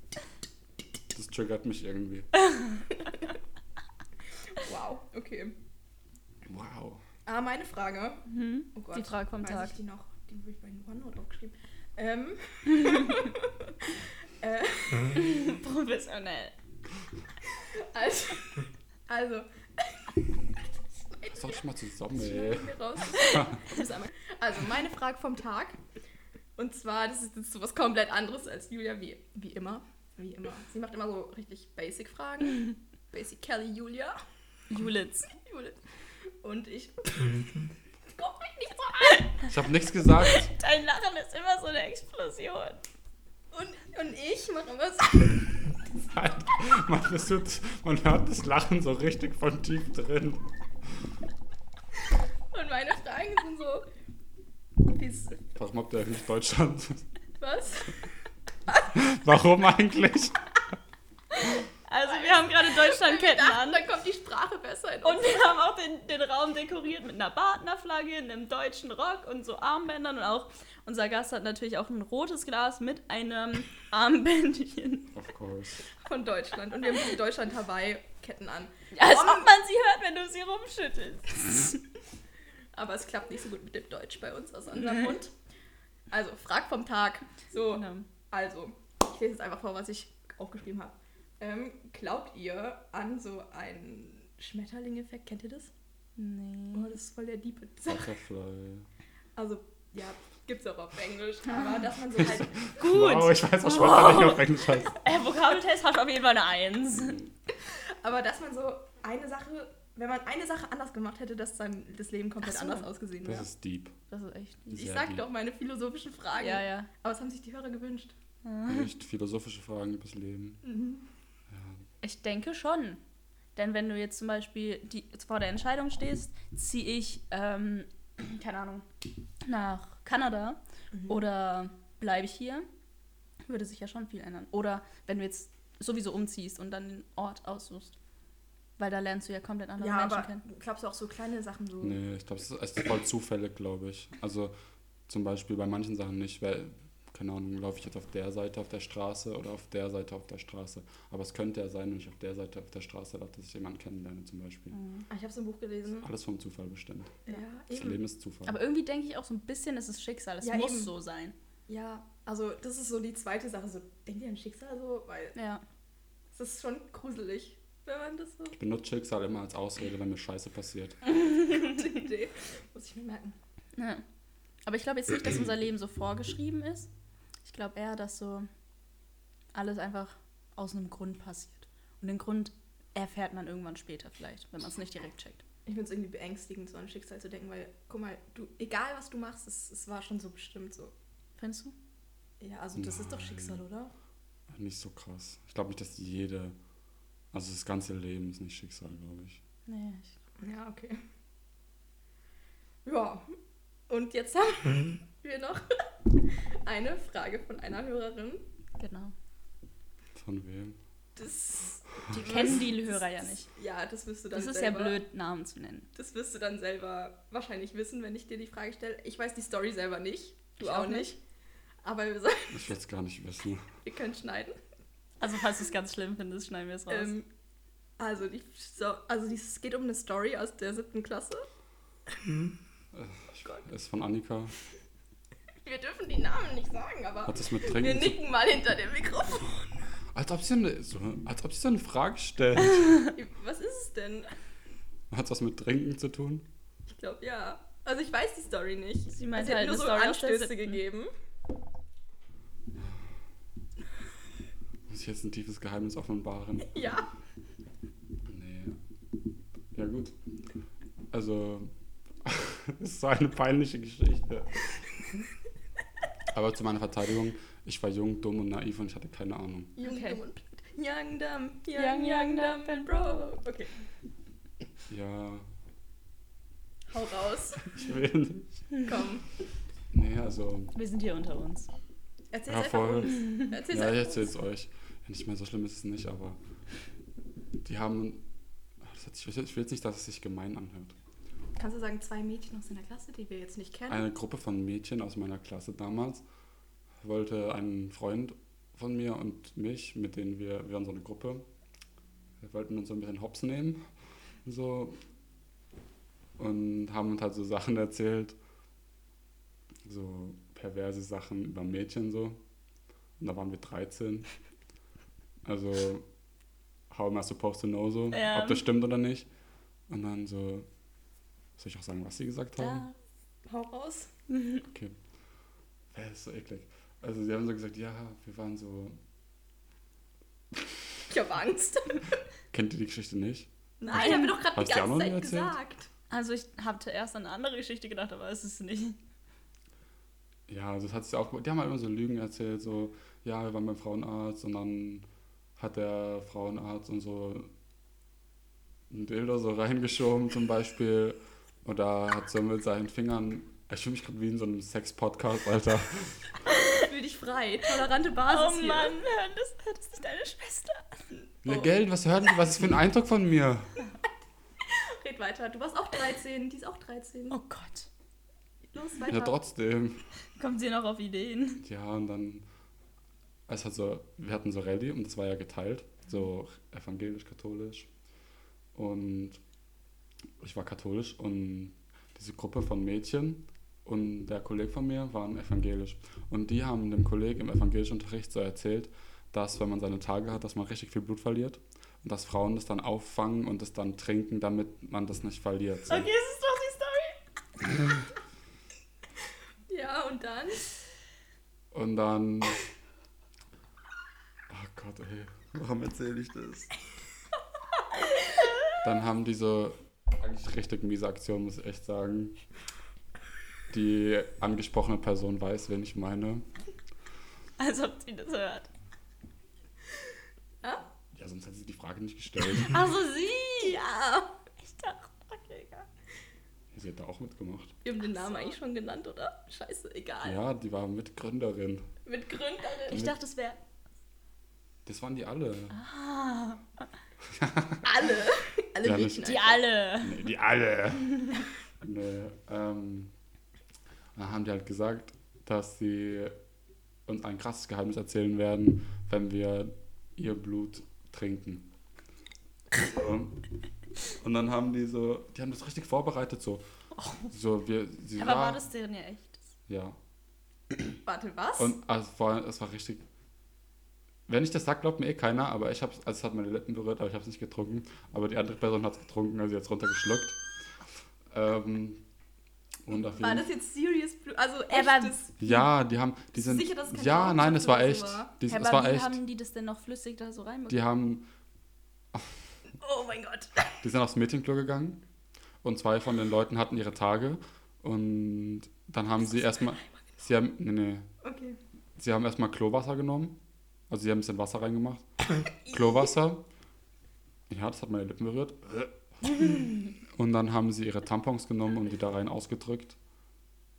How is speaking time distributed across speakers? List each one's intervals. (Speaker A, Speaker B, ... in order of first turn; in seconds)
Speaker A: 1.1-2.3, 6.5-7.0, 21.3-23.5, 39.5-40.5, 46.0-50.5, 55.5-57.0, 58.9-60.4, 75.1-75.9, 97.9-98.9, 102.3-105.0, 113.2-114.0, 114.7-115.2, 118.7-120.6, 121.5-121.8, 141.8-144.5, 145.1-154.8, 156.0-157.2, 157.7-158.6, 168.5-171.0, 192.8-193.6, 194.5-196.6, 197.3-199.4, 210.2-210.8, 222.5-223.7, 232.9-234.5, 237.3-238.2, 240.1-243.1, 245.1-246.5, 252.8-253.1, 254.9-256.8, 258.3-258.8, 259.7-260.1, 261.1-261.7, 262.2-265.3, 266.3-269.8, 274.9-275.5, 277.6-278.5, 279.9-280.7, 282.5-286.4, 287.6-288.2, 288.8-290.9, 293.9-296.2, 297.0-301.4, 302.4-303.8, 304.4-305.0, 306.4-308.4, 309.9-312.4, 313.2-314.3, 315.4-316.1, 316.9-319.3, 319.9-320.7, 321.6-322.9, 324.6-325.0, 325.9-329.0, 332.5-333.5, 334.5-335.6, 340.5-345.1, 345.6-347.5, 348.9-356.2, 361.4-363.7, 369.1-370.0, 371.6-372.4, 373.5-377.9, 378.8-379.4, 380.4-396.1, 401.7-402.6, 404.5-406.7, 408.8-412.4, 413.7-416.4, 421.1-422.8, 426.7-427.8, 430.2-431.9, 434.9-435.8, 437.3-437.9, 438.8-439.4, 440.0-443.1, 444.1-446.4, 447.1-451.7, 452.7-453.4, 454.2-456.6, 457.3-458.6, 459.7-460.0, 461.6-463.0, 464.3-470.4, 471.3-472.0, 472.9-473.5, 475.4-479.2, 480.7-481.3, 483.8-485.0, 485.6-491.1, 492.0-493.4, 493.9-495.1, 495.7-496.4, 497.5-503.0
Speaker B: 4.5-5.5, 7.3-15.3, 17.5-25.8, 26.6-34.2, 35.4-35.8, 36.4-37.5, 38.2-39.4, 43.5-45.5, 52.5-53.9, 54.8-55.4, 57.4-58.0, 62.1-65.4, 76.0-79.5, 82.8-85.3, 86.1-95.7, 96.7-98.1, 99.4-102.8, 107.6-113.5, 114.7-118.1, 120.6-121.0, 130.9-131.2, 139.8-142.0, 155.1-156.1, 157.3-158.0, 160.4-160.9, 161.7-165.4, 166.3-168.6, 171.4-173.4, 185.7-190.9, 192.4-193.9, 200.4-201.0, 202.8-203.3, 203.9-208.4, 211.2-215.0, 215.9-221.2, 221.8-222.7, 223.8-224.6, 226.9-227.3, 228.0-231.5, 235.6-239.8, 243.1-244.3, 246.9-251.1, 256.7-257.1, 269.8-273.7, 276.9-277.7, 278.8-279.2, 282.3-284.3, 291.6-294.1, 323.5-324.1, 331.1-332.1, 333.8-335.9, 356.8-359.0, 361.4-361.8, 364.7-367.4, 368.7-369.4, 399.7-400.7, 422.8-424.3, 427.8-430.4, 432.1-433.1, 437.8-439.6, 461.0-461.7, 473.1-475.3, 476.4-478.3, 482.8-483.7, 491.2-491.6
Speaker C: 8.3-9.7, 15.2-16.5, 34.7-35.3, 40.2-42.9, 61.9-63.9, 65.0-75.1, 78.9-81.8, 87.7-88.1, 96.2-97.0, 102.7-107.2, 112.4-112.9, 114.1-114.9, 116.4-116.9, 118.4-118.9, 122.0-123.0, 123.6-128.9, 129.4-132.7, 133.4-137.9, 138.8-140.4, 154.7-155.1, 158.5-161.3, 165.4-165.6, 173.8-174.0, 174.7-176.9, 177.4-178.5, 179.5-185.4, 191.4-191.8, 199.7-200.2, 208.8-209.1, 212.1-213.5, 214.3-215.9, 220.6-221.1, 225.2-227.1, 249.1-250.8, 269.8-270.2, 271.7-273.3, 280.8-281.7, 318.1-318.6, 322.6-322.9, 324.3-324.6, 333.9-334.4, 336.1-339.0, 358.3-360.9, 367.3-367.9, 370.4-371.6, 395.9-397.2, 417.6-418.7, 422.7-423.9, 424.6-425.9, 428.1-428.6, 432.9-433.6, 435.7-436.6, 439.2-440.3, 457.0-457.3, 458.2-459.4, 474.7-475.3, 478.5-480.8